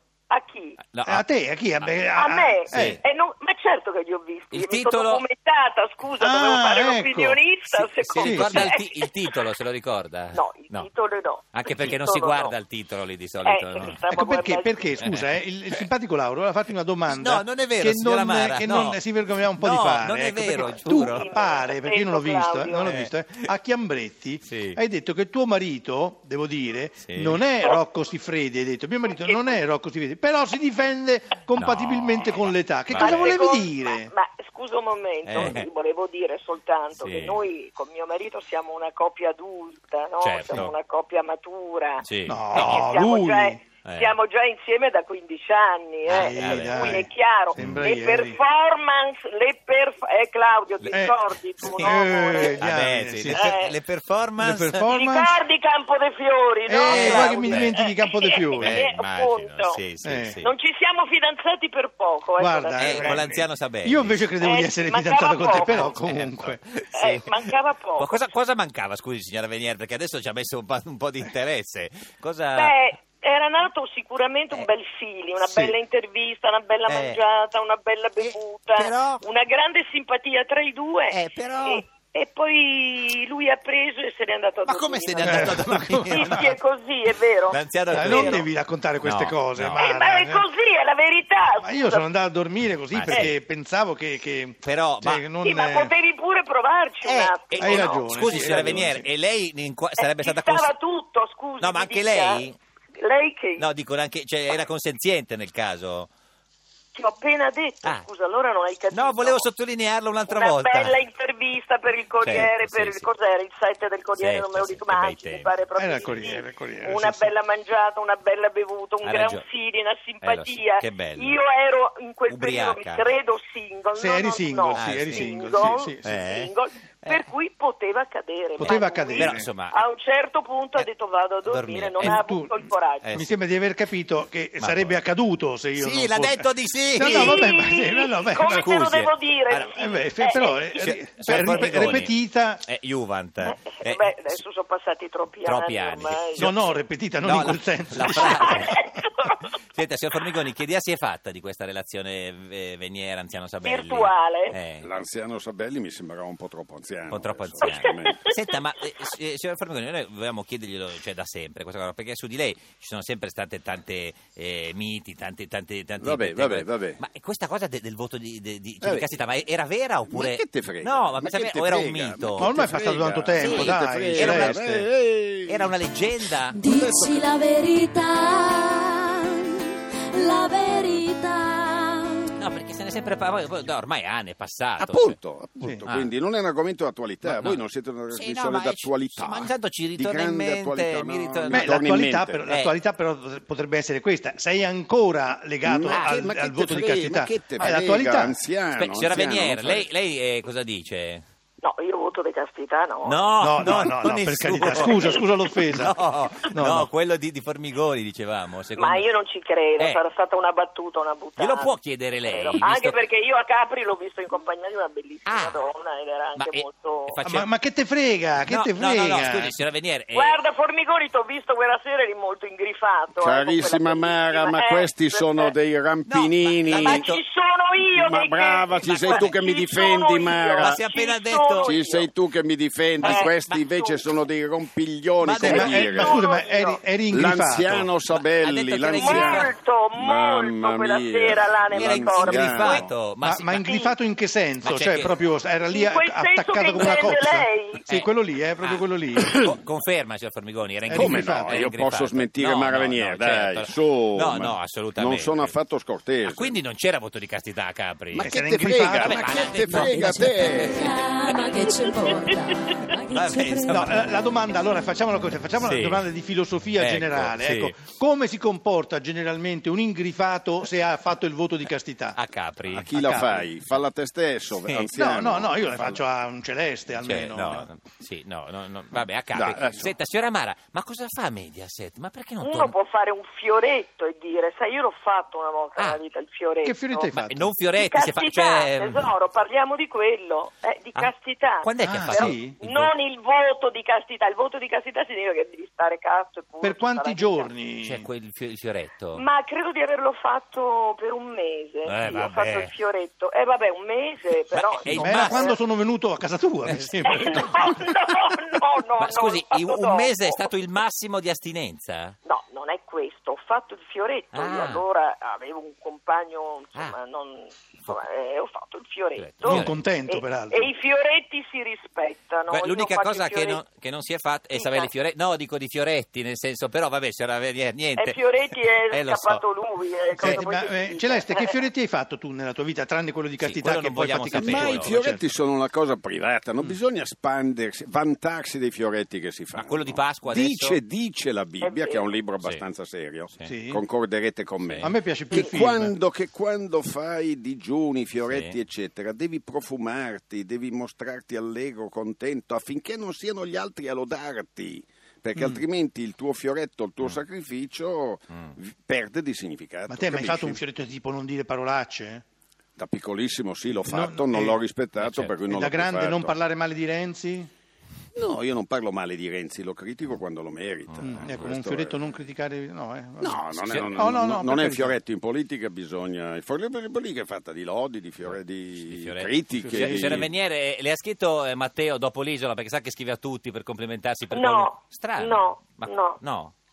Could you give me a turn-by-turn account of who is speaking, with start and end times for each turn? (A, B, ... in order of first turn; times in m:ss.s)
0:00.3-0:00.8 A
0:00.8-0:01.2 B
0:01.0-0:03.0 C
0:02.1-0:09.1 A
0:02.7-0:03.0 B
0:04.5-0:05.2 B
0:06.2-0:07.4 C
0:07.7-0:10.9 B
0:08.2-0:08.7 C
0:10.3-0:12.5 A
0:11.5-0:14.0 B
0:13.4-0:14.9 A
0:14.1-0:34.1 C
0:15.0-0:15.9 B
0:17.1-0:19.0 B
0:19.6-0:21.3 B
0:20.9-0:23.0 A
0:22.8-0:23.1 B
0:24.4-0:24.8 B
0:27.0-0:27.4 B
0:29.0-0:29.6 A
0:31.6-0:33.4 B
0:32.9-0:52.7 A
0:35.2-0:35.6 B
0:36.9-0:37.4 B
0:40.2-0:40.7 B
0:42.0-0:42.9 B
0:42.3-0:43.6 C
0:43.8-0:44.1 B
0:46.0-0:47.9 B
0:46.1-0:48.4 C
0:50.8-0:51.1 B
0:50.9-0:53.6 C
0:51.6-0:54.8 B
0:53.3-0:53.8 A
0:54.4-0:55.4 C
0:54.9-0:59.8 A
0:56.7-0:58.8 C
0:56.8-0:57.7 B
0:58.6-1:00.5 B
1:00.0-1:00.4 C
1:00.4-1:03.2 A
1:02.4-1:06.6 C
1:02.8-1:04.2 B
1:04.4-1:06.0 A
1:05.6-1:12.8 B
1:06.9-1:08.3 A
1:12.5-1:28.5 A
1:15.5-1:15.7 B
1:16.9-1:17.2 B
1:18.2-1:19.2 B
1:21.1-1:21.8 B
1:24.6-1:26.5 B
1:25.2-1:26.5 C
1:27.5-1:28.4 B
1:27.9-1:30.5 C
1:29.0-1:29.8 B
1:29.8-1:32.0 A
1:31.6-1:35.9 C
1:32.9-1:33.3 B
1:34.6-1:35.2 B
1:35.4-1:38.8 A
1:37.0-1:40.7 B
1:37.6-1:39.0 C
1:40.0-1:43.7 A
1:41.6-1:42.6 B
1:43.6-1:46.1 B
1:46.9-1:49.5 A
1:48.9-1:51.0 B
1:50.3-2:13.1 A
1:52.2-1:53.1 B
1:54.2-1:55.5 B
1:55.8-1:57.3 C
1:59.0-1:59.4 B
2:00.2-2:01.4 B
2:02.3-2:03.1 B
2:03.9-2:06.2 C
2:04.8-2:05.3 B
2:06.0-2:06.5 B
2:08.6-2:09.5 C
2:08.6-2:09.8 B
2:11.4-2:12.2 B
2:12.0-2:12.6 C
2:13.0-2:13.3 B
2:13.1-2:18.7 C
2:14.6-2:15.0 B
2:15.8-2:17.6 B
2:17.0-2:20.9 A
2:18.4-2:19.8 B
2:19.5-2:22.6 C
2:20.7-2:24.4 B
2:23.4-2:26.5 A
2:25.4-2:26.6 B
2:26.4-2:28.9 C
2:27.2-2:28.8 B
2:28.0-2:29.4 A
2:29.7-2:34.9 B
2:33.6-2:34.5 A
2:34.8-2:38.2 D
2:37.1-2:52.5 B
2:37.6-2:38.5 A
2:46.0-2:47.0 D
2:48.8-2:49.1 D
2:50.1-2:55.7 D
2:52.4-2:54.8 C
2:53.4-2:54.6 B
2:55.4-2:56.6 B
2:56.5-3:02.4 E
2:56.6-2:57.3 D
3:02.4-3:05.2 B
3:04.8-3:12.4 D
3:05.8-3:06.1 B
3:07.2-3:12.7 B
3:11.5-3:18.4 C
3:15.6-3:19.9 D
3:15.9-3:16.3 B
3:18.7-3:21.2 B
3:21.6-3:23.8 A
3:23.0-3:29.0 B
3:23.4-3:26.0 C
3:24.7-3:25.2 A
3:26.5-3:26.9 C
3:28.8-3:37.1 A
3:31.4-3:33.0 B
3:35.3-3:35.6 B
3:36.4-3:37.5 B
3:37.2-3:39.5 C
3:38.4-3:40.4 B
3:40.1-3:45.5 A
3:43.2-3:47.1 D
3:46.0-3:47.2 B
3:46.7-3:52.1 A
3:47.9-3:50.8 D
3:48.7-3:49.4 B
3:50.6-3:51.8 B
3:51.6-3:56.2 D
3:53.0-3:53.7 B
3:53.0-3:54.0 A
3:55.2-3:55.8 B
3:55.4-3:57.9 C
3:55.4-3:56.8 A
3:57.1-4:02.9 D
3:58.1-3:59.5 B
3:58.9-4:02.8 A
4:01.7-4:03.6 B
4:02.7-4:09.5 C
4:03.5-4:03.9 A
4:04.6-4:05.2 B
4:05.7-4:07.8 A
4:09.4-4:15.5 B
4:10.9-4:11.7 C
4:10.9-4:16.5 D
4:16.2-4:18.3 B
4:18.1-4:21.0 D
4:18.2-4:19.3 C
4:18.9-4:21.4 B
4:19.6-4:23.8 E
4:19.9-4:20.3 C
4:23.0-4:24.2 B
4:23.7-4:32.2 C
4:25.6-4:26.1 B
4:26.8-4:27.7 B
4:32.2-4:32.9 B
4:32.7-4:36.0 D
4:32.9-4:33.5 C
4:34.6-4:34.9 B
4:34.9-4:37.7 C
4:37.0-4:42.7 B
4:39.3-4:39.9 D
4:42.4-4:47.1 A
4:46.6-4:47.5 C
4:47.2-4:49.1 B
4:47.8-4:57.5 A
4:50.9-4:52.9 B
4:51.8-4:52.6 C
4:56.6-4:58.1 C
4:57.8-4:59.2 B
4:59.1-5:05.6 A
5:01.8-5:02.7 B
5:04.5-5:05.5 B
5:04.9-5:07.7 C
5:06.6-5:07.9 B
5:07.0-5:10.5 A
5:09.0-5:12.1 B
5:12.2-5:23.6 A
5:14.3-5:14.8 B
5:19.2-5:19.8 B
5:19.4-5:20.7 C
5:22.5-5:29.4 B
5:24.5-5:24.9 A
5:28.0-5:31.6 A
5:30.1-5:30.4 B
5:30.2-5:35.2 C
5:33.4-5:35.0 B
5:34.3-6:00.6 D
5:39.5-5:40.8 B
5:41.6-5:42.1 A
5:43.4-5:43.8 C
5:44.6-5:44.9 B
5:44.8-5:45.9 C
5:45.3-5:45.6 A
5:48.2-5:48.6 B
5:59.9-6:02.2 C
6:02.8-6:06.3 D
6:03.9-6:04.6 C
6:05.0-6:05.4 B
6:05.4-6:07.5 C
6:08.1-6:12.0 D
6:10.9-6:11.4 B
6:11.0-6:15.0 C
6:13.2-6:20.3 D
6:13.6-6:13.9 B
6:18.2-6:26.5 B
6:19.6-6:20.3 C
6:24.3-6:26.2 A